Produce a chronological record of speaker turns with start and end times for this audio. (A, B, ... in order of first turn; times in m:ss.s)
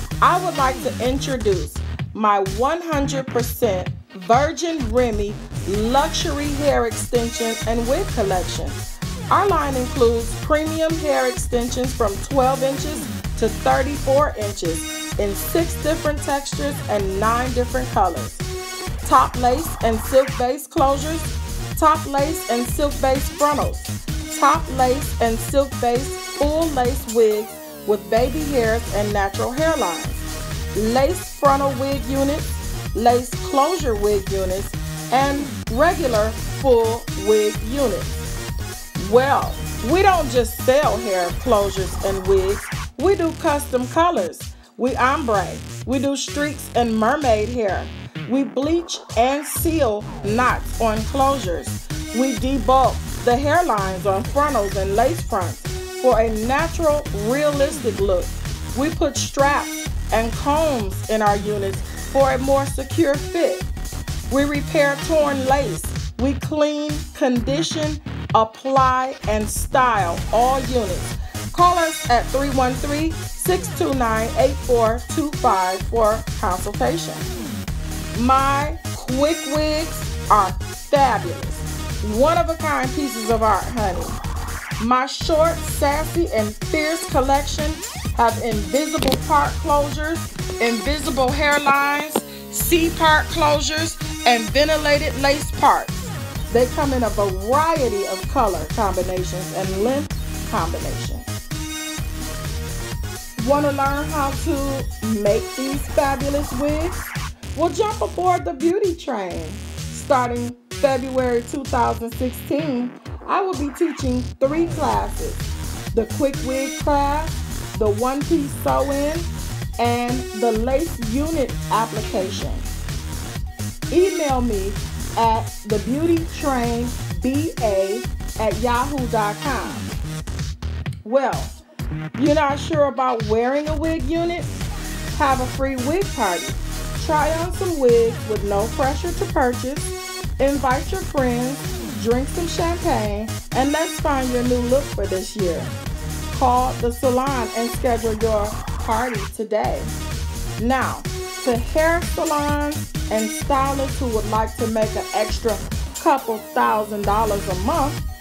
0:00.2-0:18.4 A
0:19.0-0:38.3 A
0:39.0-1:03.7 A
1:04.3-1:17.3 A
1:18.1-1:24.2 A
1:24.8-1:41.3 A
1:43.4-1:59.3 A
1:59.8-2:02.7 A
2:03.9-2:09.9 A
2:11.0-2:11.6 A
2:12.1-2:14.5 A
2:15.1-2:25.7 A
2:26.3-2:29.9 A
2:30.6-2:38.0 A